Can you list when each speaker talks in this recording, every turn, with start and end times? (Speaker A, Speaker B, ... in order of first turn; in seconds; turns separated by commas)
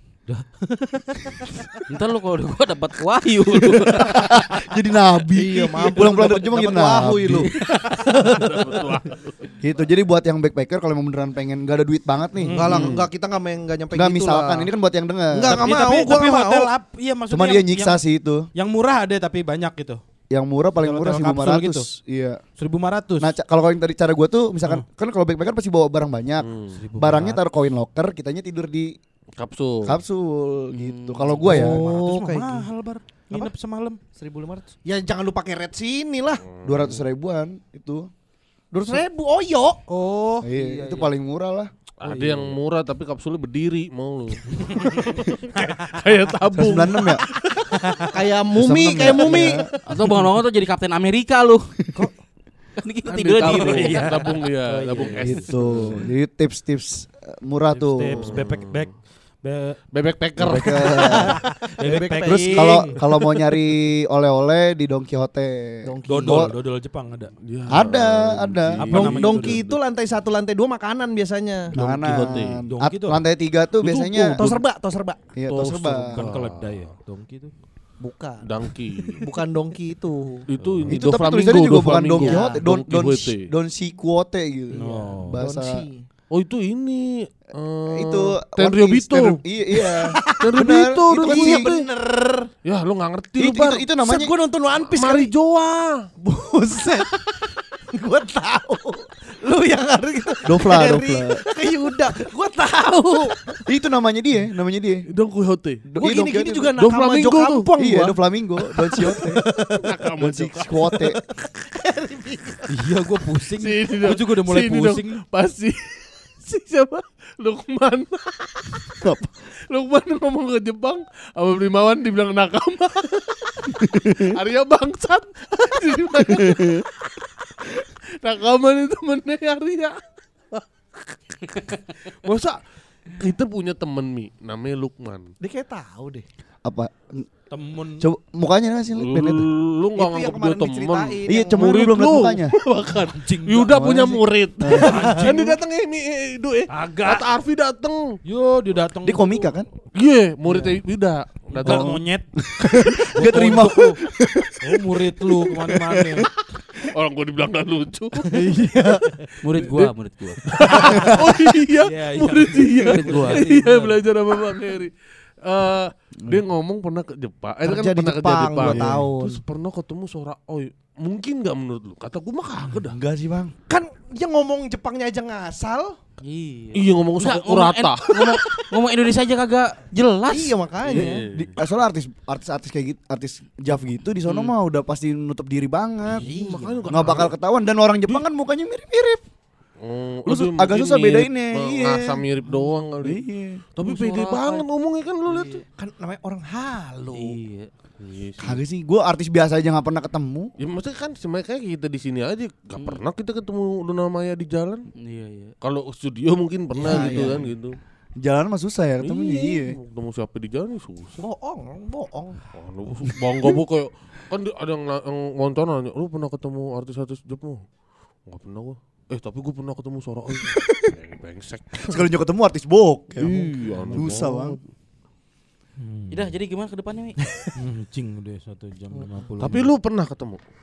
Speaker A: 0.3-1.5, Speaker B: 1.9-4.4, Speaker C: 3.5-7.5, Speaker D: 5.4-7.5, Speaker E: 8.1-9.4, Speaker C: 9.6-12.6, Speaker A: 12.4-12.9, Speaker D: 12.5-14.7, Speaker E: 12.6-13.1, Speaker C: 13.9-16.1, Speaker D: 15.3-16.7, Speaker A: 15.5-18.0, Speaker C: 17.3-18.5, Speaker A: 18.5-20.0, Speaker C: 20.3-22.4, Speaker A: 20.8-21.9, Speaker A: 22.6-23.3, Speaker C: 23.2-28.9, Speaker E: 26.4-26.8, Speaker A: 26.8-27.4, Speaker E: 29.4-30.0, Speaker C: 29.8-31.8, Speaker B: 30.7-31.3, Speaker A: 31.4-34.0, Speaker D: 31.4-32.7, Speaker D: 34.1-36.5, Speaker E: 36.5-37.0, Speaker C: 36.6-38.1, Speaker D: 38.7-39.8, Speaker A: 39.9-40.5, Speaker C: 40.4-41.7, Speaker D: 40.5-41.1, Speaker E: 42.0-47.2, Speaker A: 42.1-42.4, Speaker A: 44.6-46.0, Speaker C: 46.5-47.2, Speaker A: 47.5-48.1, Speaker D: 48.1-49.7, Speaker C: 48.5-49.6, Speaker B: 49.8-51.7, Speaker B: 52.8-54.2, Speaker E: 53.1-56.1, Speaker A: 53.5-55.5, Speaker C: 55.2-58.3, Speaker A: 57.7-59.8, Speaker E: 58.1-58.8, Speaker E: 59.9-61.2, Speaker C: 60.4-61.4, Speaker A: 61.0-63.0, Speaker D: 61.0-61.3, Speaker D: 61.8-63.2, Speaker C: 62.2-66.5, Speaker D: 65.8-66.5, Speaker A: 66.0-67.3, Speaker E: 67.4-69.7, Speaker C: 67.7-69.2, Speaker A: 68.8-69.8, Speaker D: 68.9-71.7, Speaker C: 71.7-74.6, Speaker E: 71.8-72.6, Speaker A: 72.2-73.2, Speaker D: 73.8-75.2, Speaker C: 75.3-76.2, Speaker E: 75.5-76.8, Speaker A: 76.1-77.5, Speaker D: 78.0-78.7, Speaker E: 78.4-79.3, Speaker D: 79.2-80.5, Speaker E: 80.5-83.5, Speaker C: 80.9-85.8, Speaker D: 82.1-82.6, Speaker A: 84.7-85.4, Speaker D: 84.8-86.1, Speaker E: 86.3-89.4, Speaker C: 87.9-91.7, Speaker D: 89.7-92.5, Speaker E: 90.4-91.9, Speaker E: 92.6-93.8, Speaker C: 93.4-94.3, Speaker D: 94.0-95.3, Speaker E: 94.8-96.1, Speaker D: 96.2-103.6, Speaker C: 100.4-101.4, Speaker C: 103.7-105.0, Speaker E: 105.1-105.8, Speaker C: 105.9-109.4, Speaker D: 106.0-110.0, Speaker E: 106.8-107.7, Speaker E: 109.8-110.9, Speaker C: 110.2-111.2, Speaker D: 110.9-113.0, Speaker A: 112.7-115.2, Speaker E: 113.6-118.9, Speaker E: 119.7-130.0, Speaker C: 123.9-124.3, Speaker C: 126.4-126.8, Speaker E: 130.5-135.3, Speaker D: 135.4-136.2, Speaker C: 136.6-137.2, Speaker A: 137.5-138.1, Speaker C: 138.0-139.5, Speaker E: 138.9-148.2, Speaker D: 139.9-141.6, Speaker C: 141.3-142.5, Speaker A: 143.1-143.9, Speaker C: 143.7-145.2, Speaker D: 144.8-145.5, Speaker A: 144.8-145.5, Speaker A: 146.7-147.3, Speaker A: 148.2-149.5, Speaker C: 149.0-149.7, Speaker E: 149.9-152.0, Speaker D: 150.5-150.8, Speaker A: 151.5-152.3, Speaker C: 151.6-154.8, Speaker A: 153.1-154.0, Speaker A: 154.6-156.3, Speaker C: 155.5-156.3, Speaker E: 156.8-158.4, Speaker D: 158.3-159.1, Speaker B: 159.4-161.1, Speaker E: 159.5-164.9, Speaker A: 160.8-161.1, Speaker C: 160.9-161.4, Speaker A: 161.8-164.0, Speaker B: 162.8-163.5, Speaker E: 165.4-173.0, Speaker D: 167.6-169.4, Speaker C: 168.6-169.0, Speaker C: 172.8-173.5, Speaker D: 173.7-176.0, Speaker B: 176.2-180.6, Speaker E: 176.7-178.4, Speaker D: 180.3-181.2, Speaker E: 180.8-181.5, Speaker C: 180.9-186.3, Speaker B: 184.2-184.5, Speaker E: 186.1-187.3, Speaker D: 186.1-186.9, Speaker C: 186.9-189.2, Speaker E: 189.8-193.2, Speaker C: 190.2-192.2, Speaker C: 193.0-193.6, Speaker E: 193.7-195.6, Speaker B: 193.8-194.6, Speaker B: 195.3-195.6, Speaker D: 195.8-197.4, Speaker B: 197.1-197.7, Speaker E: 198.0-198.6, Speaker C: 198.4-200.5, Speaker E: 200.6-204.8, Speaker B: 205.0-205.5, Speaker E: 205.6-207.8, Speaker D: 206.8-207.5, Speaker C: 206.8-207.4, Speaker C: 208.2-209.8, Speaker E: 209.0-211.2, Speaker D: 211.2-212.5, Speaker E: 212.5-217.6, Speaker E: 218.2-222.1, Speaker C: 220.5-220.9, Speaker C: 221.8-224.6, Speaker E: 223.2-224.4, Speaker D: 223.9-224.6, Speaker A: 225.8-226.3, Speaker B: 226.1-227.2, Speaker A: 227.6-229.7, Speaker D: 228.9-229.2, Speaker E: 229.4-230.4